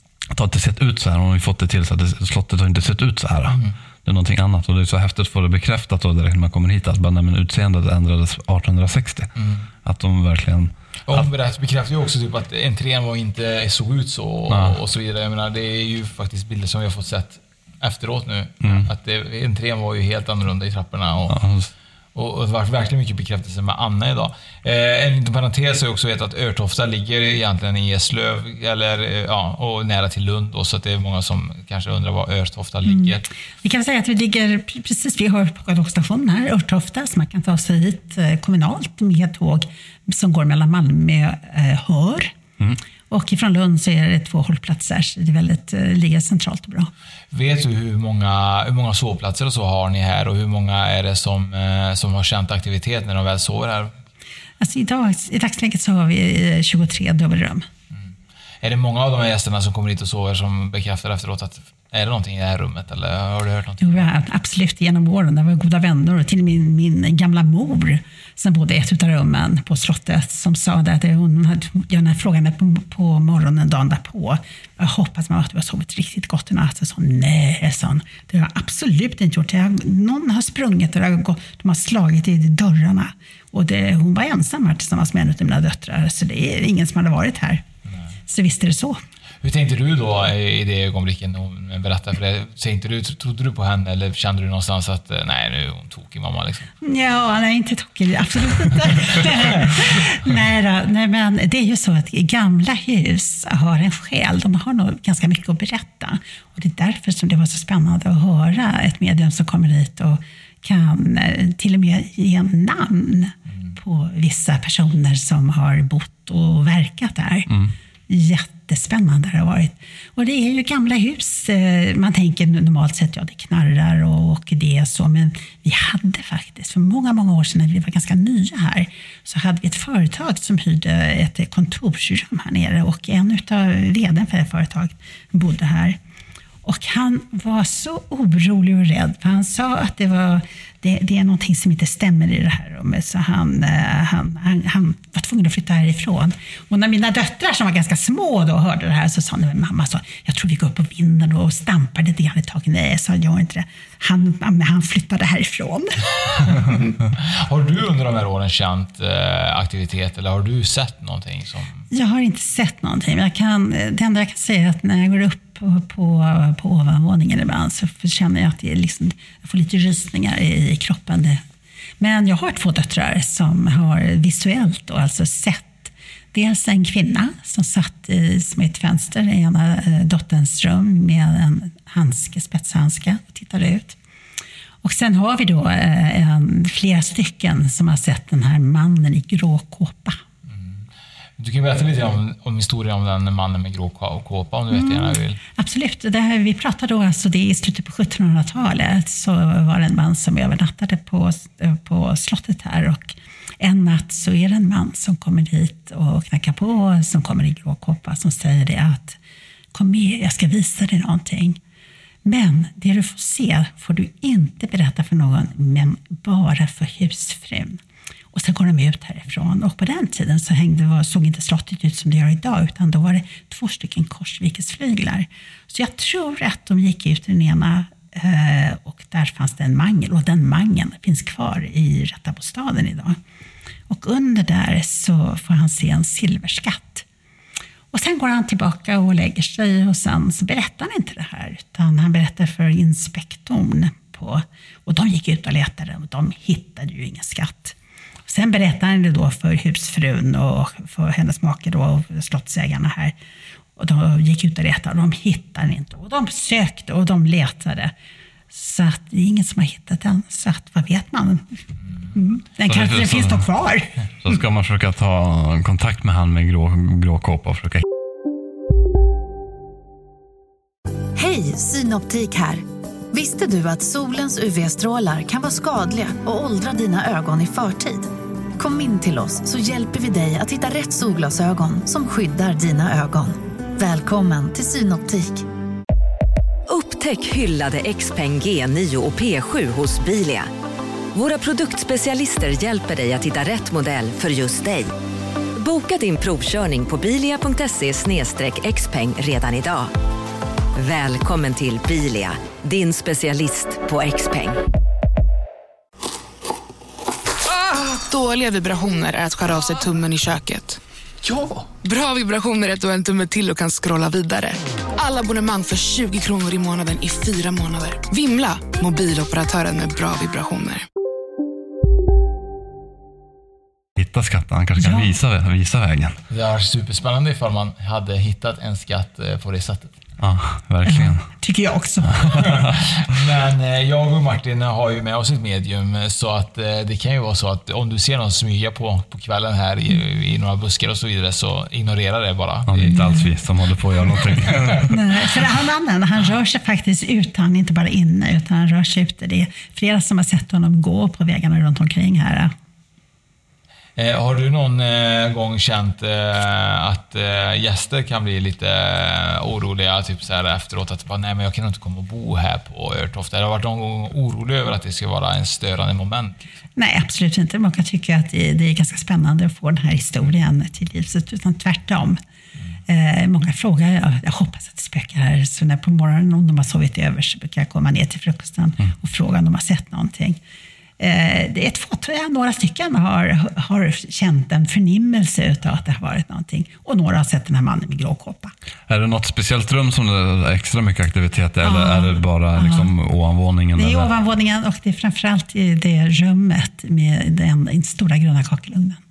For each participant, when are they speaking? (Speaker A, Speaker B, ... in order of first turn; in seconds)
Speaker A: 0.3-9.3, 9.8-11.3, 14.5-14.8, 18.6-18.9, 21.3-21.7, 117.5-117.7, 262.6-263.5, 264.2-267.8, 324.0-326.2, 330.2-331.3, 332.3-332.8, 342.7-344.9, 388.9-394.1
Speaker B: 3.5-3.8, 9.4-9.7, 11.1-21.4, 22.1-33.3, 47.3-53.9, 58.6-64.1, 89.4-96.7, 156.6-161.8, 190.5-190.8, 191.4-195.4, 326.3-329.9, 332.4-343.1, 354.0-366.5
Speaker C: 32.9-42.3, 43.1-46.9, 54.6-57.7, 63.8-87.6, 88.3-89.0, 96.8-117.5, 118.1-136.0, 136.6-156.0, 161.9-171.4, 172.0-184.0, 184.8-190.2, 194.7-209.2, 209.7-211.6, 212.2-217.8, 218.3-233.2, 233.9-237.1, 237.9-247.8, 248.3-253.2, 253.8-257.9, 258.5-261.6, 262.1-264.0, 324.8-325.1, 330.9-332.5, 342.9-343.3, 344.9-352.5, 366.8-372.2, 372.9-380.4, 381.0-388.5, 391.6-392.9, 393.8-399.0
Speaker D: 271.2-285.4
Speaker E: 286.7-290.5, 291.1-294.9, 295.6-299.9, 300.8-304.6
Speaker F: 307.5-320.9